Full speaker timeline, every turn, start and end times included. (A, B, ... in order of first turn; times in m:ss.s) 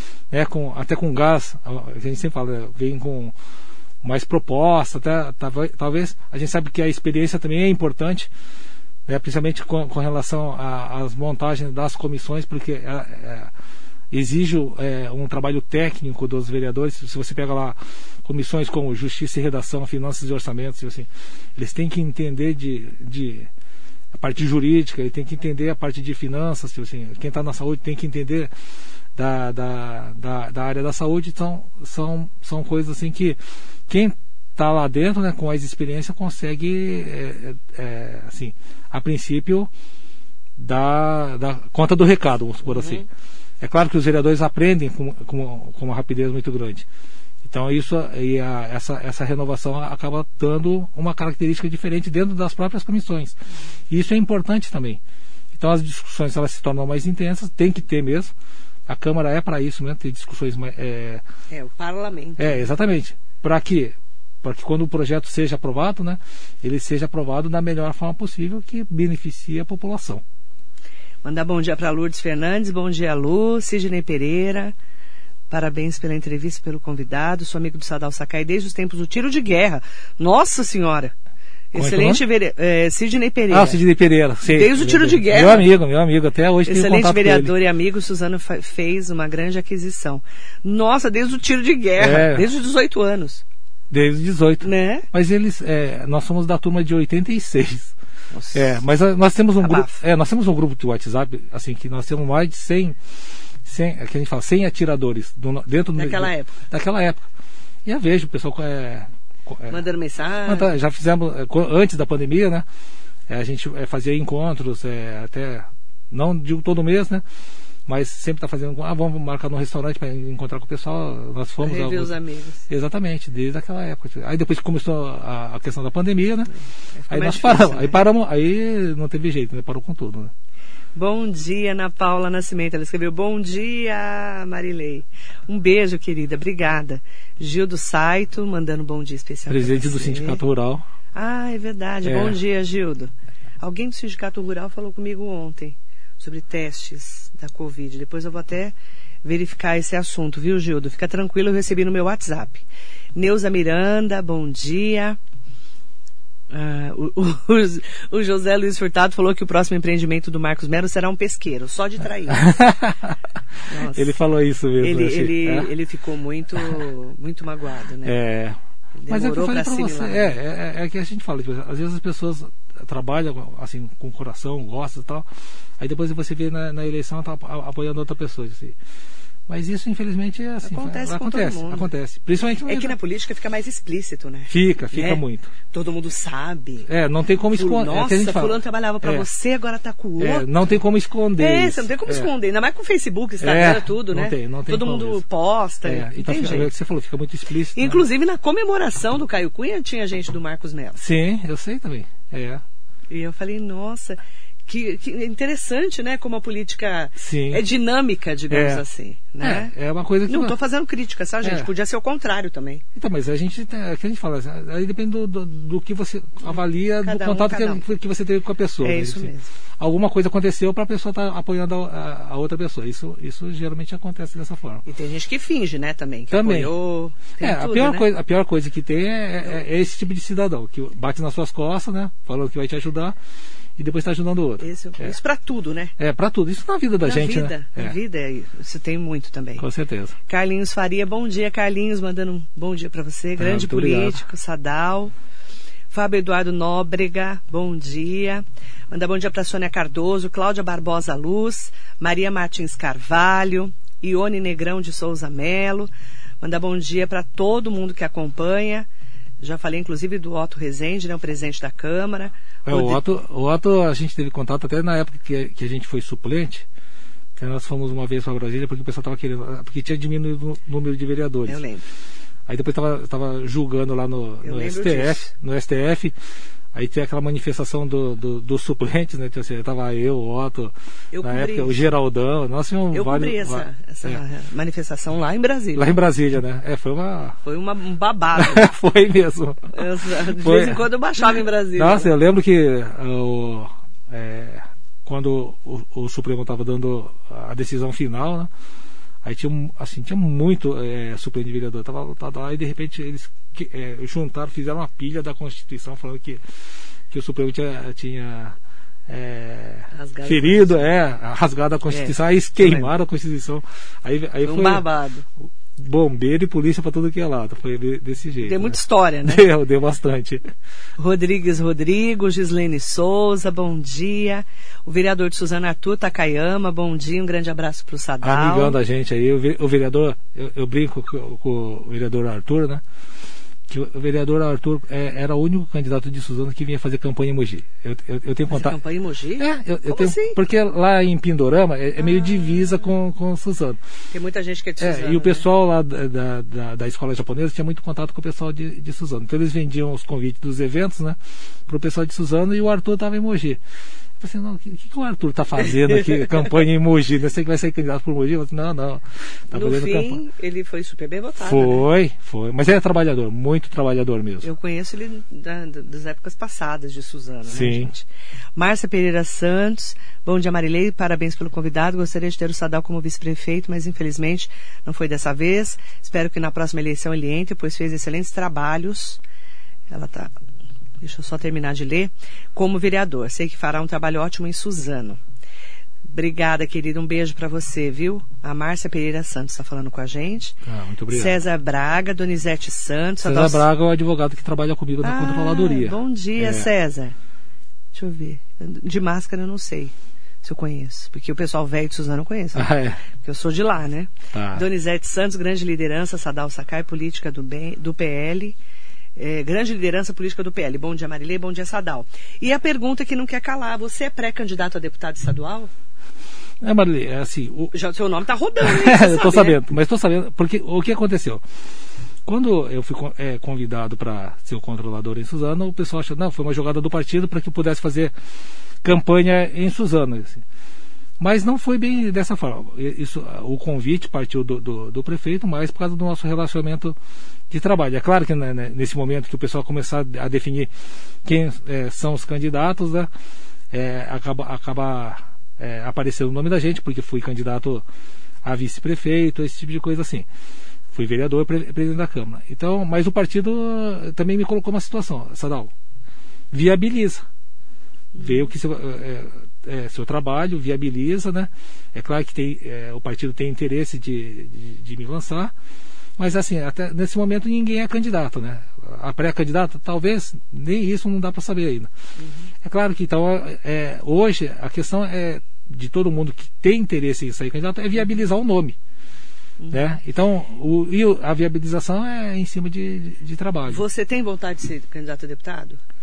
0:00.3-0:03.3 A
0:04.0-0:08.3 A
0:09.1-0:13.5 A
0:14.1-0:23.5 A
0:24.1-0:28.5 A
0:29.2-0:39.7 A
0:40.6-0:43.0 A
0:42.7-0:43.1 B
0:43.6-0:46.9 A
0:47.4-0:53.4 A
0:53.9-0:55.0 A
0:55.5-0:58.3 A
0:58.9-1:01.2 A
1:01.5-1:02.7 B
1:02.4-1:10.2 A
1:11.2-1:14.8 B
1:15.5-1:21.1 B
1:21.7-1:23.8 B
1:21.8-1:22.2 A
1:23.5-1:27.6 A
1:24.5-1:25.7 B
1:26.7-1:33.4 B
1:32.0-1:32.5 A
1:33.9-1:37.9 A
1:34.6-1:35.1 B
1:38.3-1:38.8 B
1:38.5-1:43.0 A
1:39.6-1:40.0 B
1:43.6-1:47.2 A
1:46.0-1:46.6 B
1:47.8-1:49.8 A
1:49.7-1:50.7 B
1:50.5-1:52.7 A
1:53.3-1:57.2 A
1:57.9-2:02.1 A
2:01.6-2:02.7 B
2:02.7-2:06.5 A
2:07.0-2:08.0 B
2:07.1-2:10.3 A
2:11.0-2:20.4 B
2:19.5-2:20.9 A
2:21.1-2:32.6 B
2:22.0-2:22.4 A
2:33.2-2:35.2 B
2:36.5-2:42.6 B
2:42.3-2:43.2 A
2:43.7-2:44.1 B
2:43.7-2:45.7 A
2:44.8-2:48.2 B
2:46.6-2:46.8 A
2:48.0-2:48.6 A
2:49.0-2:50.4 B
2:49.1-2:55.3 A
2:55.8-2:58.8 A
2:59.5-3:03.0 A
3:00.6-3:01.9 B
3:02.7-3:06.9 B
3:04.5-3:05.5 A
3:06.9-3:09.3 A
3:07.5-3:10.5 B
3:10.2-3:12.3 A
3:11.4-3:16.7 B
3:13.4-3:15.2 A
3:15.8-3:18.1 A
3:17.8-3:21.0 B
3:21.0-3:22.6 A
3:23.1-3:29.7 B
3:27.2-3:27.6 A
3:28.5-3:28.8 A
3:29.4-3:30.6 A
3:30.3-3:32.8 B
3:31.4-3:31.7 A
3:33.0-3:44.8 A
3:37.0-3:37.8 B
3:38.8-3:39.5 B
3:44.9-3:48.1 B
3:46.3-3:46.7 A
3:47.4-3:53.2 A
3:53.8-3:55.2 A
3:54.6-3:56.0 B
3:56.0-3:58.0 A
3:57.0-3:59.6 B
3:59.6-4:00.2 A
4:00.3-4:05.1 B
4:03.4-4:04.2 A
4:05.9-4:18.9 B
4:19.4-4:23.0 B
4:22.7-4:26.7 A
4:27.4-4:31.6 A
4:31.5-4:31.8 B
4:32.5-4:36.2 A
4:34.4-4:35.3 B
4:36.7-4:44.2 A
4:41.1-4:41.9 B
4:42.9-4:46.0 B
4:45.8-4:47.4 A
4:47.4-4:48.7 B
4:48.4-4:50.9 A
4:49.7-4:52.1 B
4:51.8-4:58.5 A
4:59.2-5:06.4 A
5:07.1-5:08.6 A
5:09.1-5:14.9 A
5:09.9-5:10.8 B
5:11.9-5:12.9 B
5:14.4-5:15.3 B
5:15.8-5:20.4 A
5:18.4-5:19.5 B
5:21.0-5:28.8 B
5:28.2-5:32.8 A
5:33.7-5:38.8 A
5:38.5-5:40.4 B
5:39.4-5:43.8 A
5:44.1-5:45.5 B
5:44.8-5:53.6 A
5:54.2-6:00.2 A
5:59.5-6:01.9 B
6:01.4-6:04.5 A
6:04.4-6:19.2 B
6:07.5-6:07.9 A
6:19.9-6:20.3 B
6:21.0-6:25.2 B
6:26.0-6:30.6 B
6:30.6-6:31.4 A
6:31.1-6:33.7 B
6:33.2-6:36.7 A
6:35.0-6:37.2 B
6:37.9-6:48.6 B
6:42.6-6:43.0 A
6:44.3-6:44.7 A
6:49.2-6:55.7 B
6:56.6-6:57.7 A
6:57.7-6:59.6 B
6:58.6-7:01.4 A
7:02.3-7:08.1 A
7:08.8-7:10.4 A
7:11.2-7:17.0 A
7:17.5-7:20.7 A
7:21.2-7:23.1 A
7:23.7-7:27.8 A
7:28.4-7:30.3 A
7:30.9-7:35.7 A
7:36.5-7:37.2 A
7:38.2-7:45.5 A
7:46.2-7:51.9 A
7:52.2-7:52.5 B
7:52.6-7:58.8 A
7:59.6-7:59.8 B
7:59.7-8:03.8 A
8:03.7-8:05.8 B